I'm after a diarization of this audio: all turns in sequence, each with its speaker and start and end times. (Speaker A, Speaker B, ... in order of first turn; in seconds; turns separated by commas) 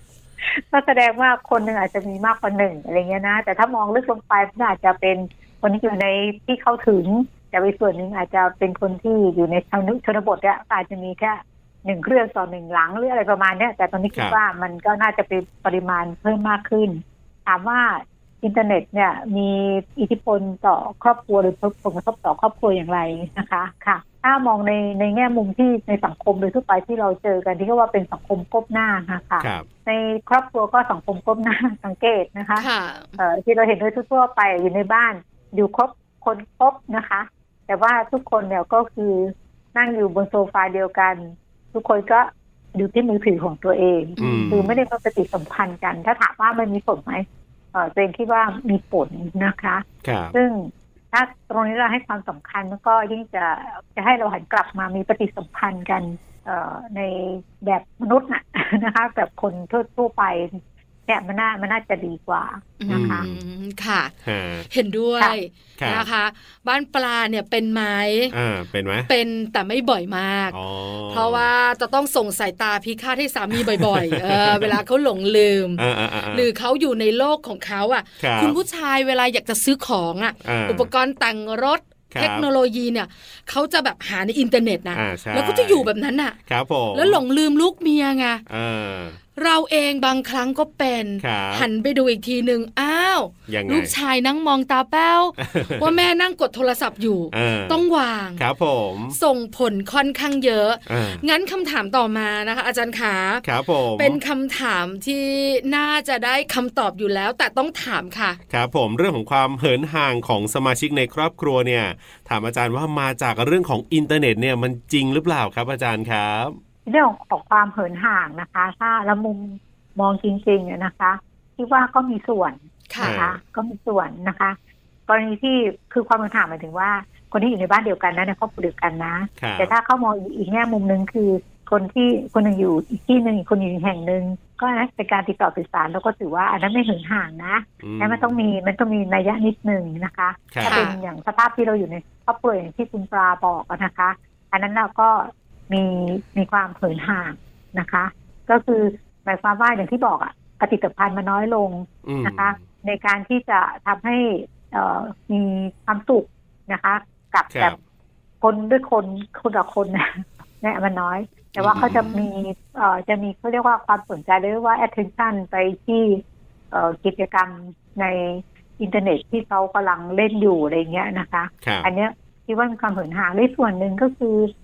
Speaker A: 0.4-32.7, Speaker B: 29.4-29.7, Speaker C: 32.6-33.2, Speaker A: 33.2-63.2, Speaker C: 44.2-44.6, Speaker B: 44.2-44.8, Speaker B: 50.0-50.4, Speaker C: 62.8-64.1, Speaker B: 62.9-63.4, Speaker B: 64.2-64.7, Speaker C: 64.7-68.3, Speaker B: 65.8-66.1, Speaker B: 68.3-69.1, Speaker C: 69.1-70.6, Speaker B: 70.5-71.5, Speaker C: 71.1-86.4, Speaker B: 73.5-74.8, Speaker B: 75.8-76.5, Speaker B: 78.2-78.6, Speaker B: 80.4-80.9, Speaker B: 82.1-82.5, Speaker B: 84.9-85.9, Speaker B: 86.5-87.2, Speaker C: 86.9-88.4, Speaker B: 88.5-89.2, Speaker C: 89.4-98.4, Speaker B: 91.2-91.7, Speaker B: 93.5-93.9, Speaker B: 95.4-95.9, Speaker B: 97.3-97.8, Speaker B: 98.4-99.2, Speaker C: 99.1-103.4, Speaker B: 100.9-101.2, Speaker B: 103.4-104.2, Speaker C: 104.0-108.4, Speaker B: 108.5-116.6, Speaker A: 116.9-124.6, Speaker B: 123.0-123.4, Speaker A: 125.1-157.8, Speaker B: 129.4-129.7, Speaker B: 137.8-138.3, Speaker B: 140.5-140.8, Speaker C: 140.6-141.0, Speaker B: 152.1-152.6, Speaker A: 158.4-166.2, Speaker B: 161.6-162.2, Speaker A: 166.7-174.5, Speaker B: 171.6-171.9